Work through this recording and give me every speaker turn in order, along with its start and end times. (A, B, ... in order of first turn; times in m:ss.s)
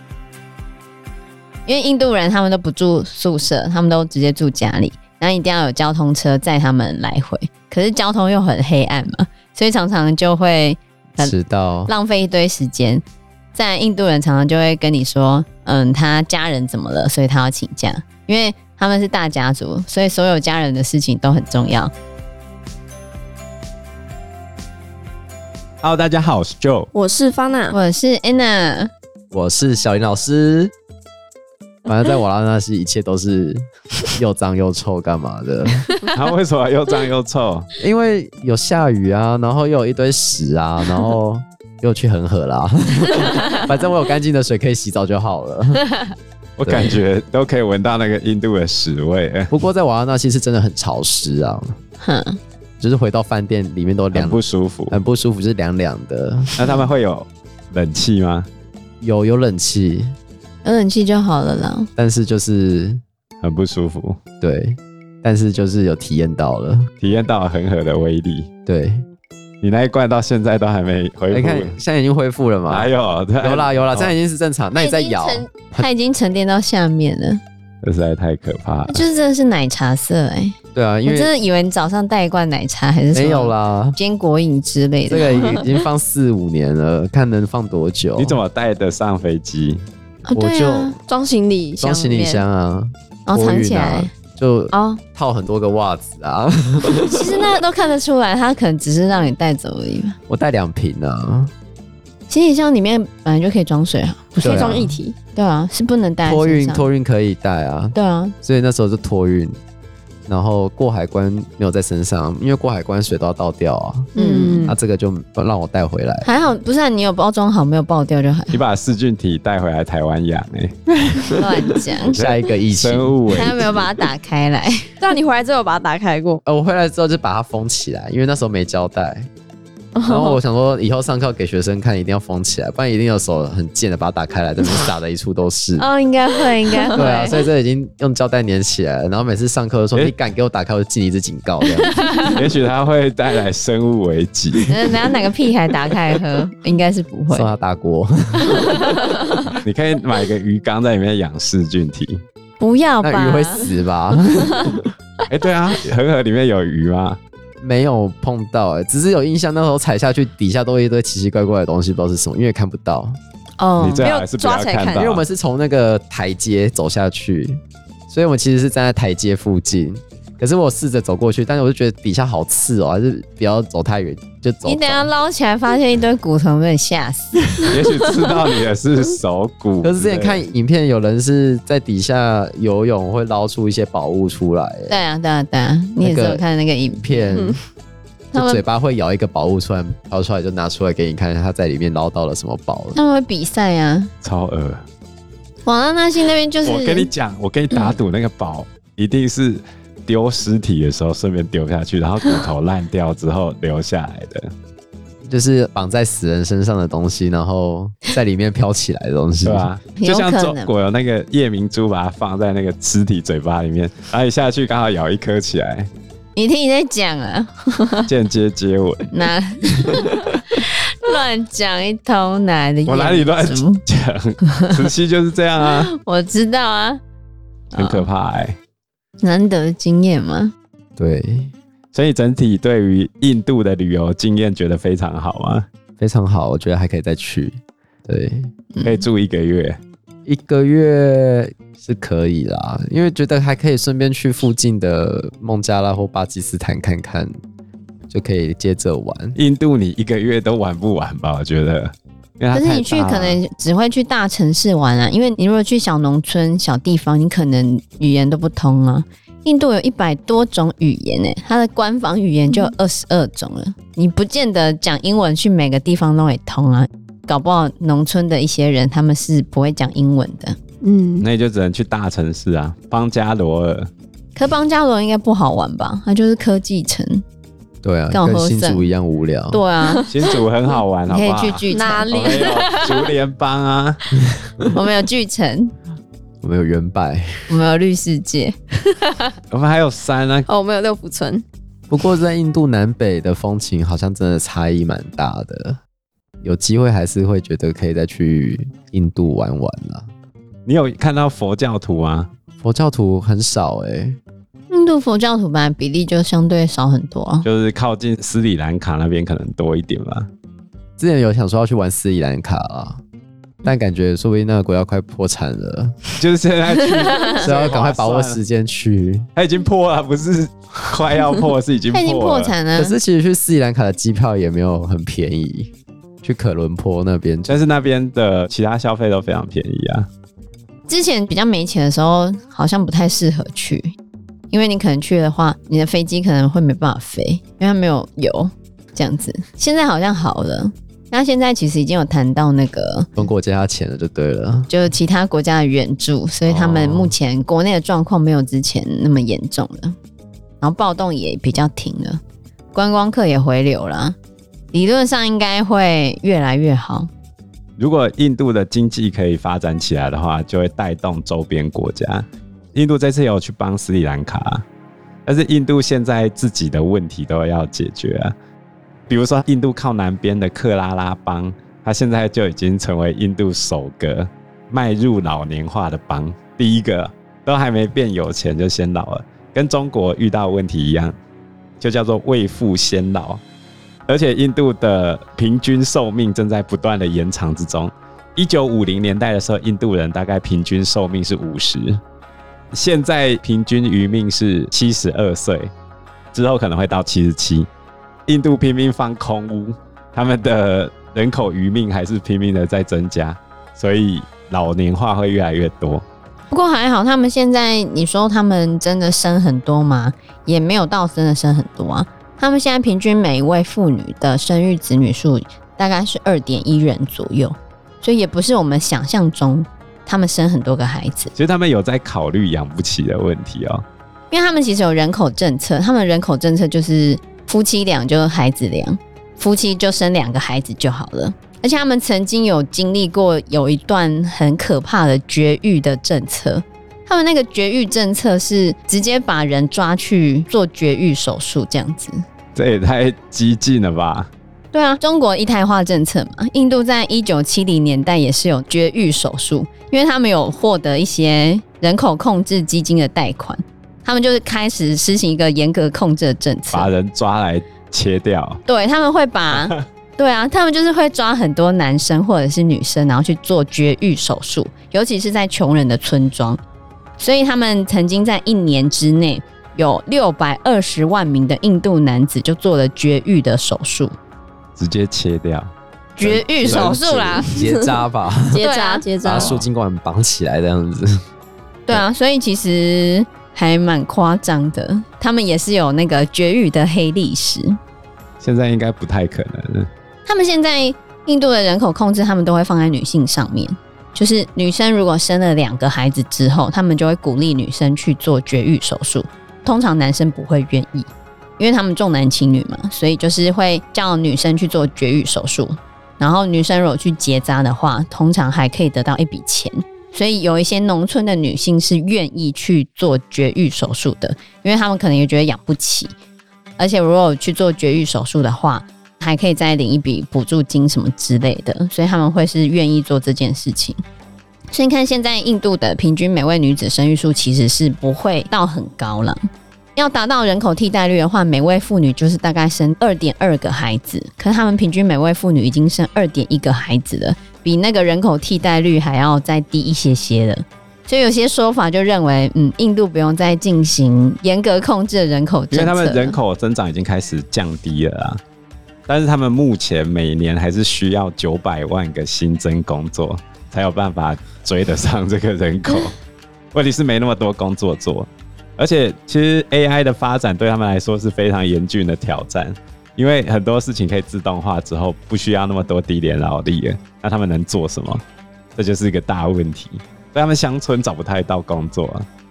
0:01.6-0:11.3 A
0:11.2-0:11.9 B
0:11.9-0:21.9 A
0:25.8-0:26.9 C
0:26.9-0:27.8 D
0:27.7-0:28.9 A
0:29.3-0:30.7 B
0:31.8-0:35.8 B
0:36.1-0:37.7 C
0:37.8-0:45.8 B
0:46.6-0:49.5 C
0:46.6-0:47.0 B
0:49.5-0:51.8 B
0:52.0-0:52.4 A
0:52.8-0:56.5 B
0:54.1-0:55.0 C
0:56.6-0:58.5 C
0:59.0-1:00.2 B
1:00.6-1:01.9 A
1:02.0-1:03.0 B
1:03.4-1:04.2 C
1:04.4-1:06.9 B
1:07.0-1:08.5 C
1:08.6-1:09.0 B
1:09.6-1:11.8 C
1:11.3-1:15.9 B
1:12.7-1:14.1 C
1:14.8-1:17.4 A
1:17.8-1:19.0 C
1:18.9-1:25.6 A
1:20.7-1:21.3 B
1:23.1-1:24.0 B
1:25.1-1:28.4 B
1:25.2-1:25.7 D
1:28.2-1:29.8 C
1:30.2-1:31.0 A
1:30.3-1:31.0 B
1:31.1-1:32.4 D
1:31.8-1:37.5 B
1:33.3-1:34.1 A
1:34.7-1:35.0 A
1:37.1-1:40.2 A
1:40.3-1:41.5 B
1:42.3-1:44.8 A
1:44.3-1:45.1 D
1:44.4-1:45.0 B
1:45.3-1:46.9 A
1:46.2-1:49.6 B
1:47.9-1:48.3 A
1:50.3-1:54.1 B
1:54.2-1:54.7 A
1:54.2-1:54.7 D
1:54.6-1:56.3 B
1:56.2-1:58.6 A
1:58.5-2:01.3 C
2:01.3-2:02.2 A
2:02.0-2:03.8 C
2:02.1-2:03.7 B
2:03.3-2:04.9 A
2:05.0-2:06.4 D
2:06.4-2:09.3 B
2:09.9-2:10.4 D
2:10.0-2:15.9 B
2:15.8-2:17.4 A
2:16.9-2:22.1 B
2:21.8-2:22.4 A
2:22.2-2:24.7 C
2:24.7-2:27.5 A
2:27.3-2:29.2 B
2:28.6-2:29.0 A
2:29.6-2:32.2 C
2:32.6-2:33.6 A
2:33.0-2:34.9 B
2:35.3-2:37.2 C
2:37.6-2:43.2 B
2:43.6-2:44.0 A
2:43.8-2:45.2 C
2:44.0-2:45.0 D
2:44.9-2:55.1 B
2:54.6-2:57.7 A
2:57.7-3:00.4 C
2:59.8-3:05.0 B
3:04.9-3:07.3 A
3:06.0-3:06.4 B
3:06.9-3:07.6 B
3:08.3-3:08.6 A
3:08.3-3:13.0 B
3:12.9-3:14.1 A
3:14.2-3:14.8 C
3:15.6-3:17.1 A
3:16.6-3:24.5 C
3:25.3-3:29.7 B
3:29.4-3:35.9 C
3:30.0-3:30.7 A
3:36.4-3:38.0 A
3:38.0-3:39.1 C
3:39.1-3:43.8 A
3:39.8-3:40.2 C
3:42.8-3:45.9 C
3:45.6-3:47.0 A
3:47.7-3:48.1 A
3:47.8-3:48.6 C
3:49.2-3:50.5 A
3:51.0-3:51.5 B
3:51.9-3:55.7 C
3:56.0-3:58.5 B
3:58.7-3:59.0 A
3:58.8-3:59.8 C
4:00.2-4:07.3 B
4:08.1-4:09.4 B
4:09.3-4:13.4 C
4:12.5-4:30.6 A
4:30.8-4:31.3 D
4:31.2-4:33.9 C
4:34.4-4:37.2 A
4:37.8-4:39.6 B
4:38.1-4:38.8 A
4:39.5-4:40.1 A
4:39.9-4:40.4 D
4:40.1-4:44.0 C
4:41.1-4:42.9 A
4:41.7-4:42.8 D
4:44.4-4:44.7 B
4:44.7-4:45.7 A
4:46.4-4:47.5 B
4:47.5-4:49.3 A
4:49.5-4:50.5 C
4:50.5-4:51.4 D
4:51.9-4:55.8 B
4:56.4-5:00.1 B
5:00.6-5:02.3 C
5:02.6-5:04.2 B
5:04.7-5:07.4 A
5:07.4-5:10.3 C
5:11.0-5:13.0 B
5:13.6-5:16.0 B
5:16.1-5:18.4 C
5:17.4-5:19.3 B
5:19.4-5:22.5 C
5:21.9-5:23.0 A
5:22.8-5:25.7 B
5:26.2-5:27.6 B
5:27.5-5:30.1 C
5:30.9-5:33.9 A
5:34.5-5:43.2 A
5:43.2-5:44.7 B
5:44.7-5:50.0 A
5:46.5-5:47.1 B
5:50.6-5:52.2 A
5:52.7-5:54.2 A
5:54.7-5:57.1 A
5:57.8-6:04.6 C
6:05.2-6:08.3 C
6:09.1-6:21.2 C
6:21.8-6:23.4 C
6:24.1-6:32.0 C
6:32.7-6:35.7 C
6:36.3-6:37.7 C
6:38.3-6:46.0 C
6:46.5-7:01.3 A
7:01.3-7:03.8 C
7:04.3-7:22.2 A
7:22.5-7:24.3 C
7:24.7-7:36.9 A
7:36.7-7:38.6 C
7:38.6-7:46.6 A
7:39.5-7:39.8 C
7:47.2-7:54.2 A
7:54.8-7:57.4 C
7:56.2-7:57.6 A
7:56.2-7:58.7 B
7:57.6-7:57.9 D
7:58.5-7:59.5 D
7:58.6-7:59.1 A
7:59.2-8:01.2 B
7:59.3-7:59.6 C
8:01.9-8:07.8 A
8:08.4-8:09.9 C
8:10.2-8:36.1 A
8:36.8-8:44.0 A
8:44.7-9:06.4 A
9:05.7-9:08.4 C
9:09.1-9:16.1 C
9:16.7-9:28.2 C
9:28.8-9:32.3 C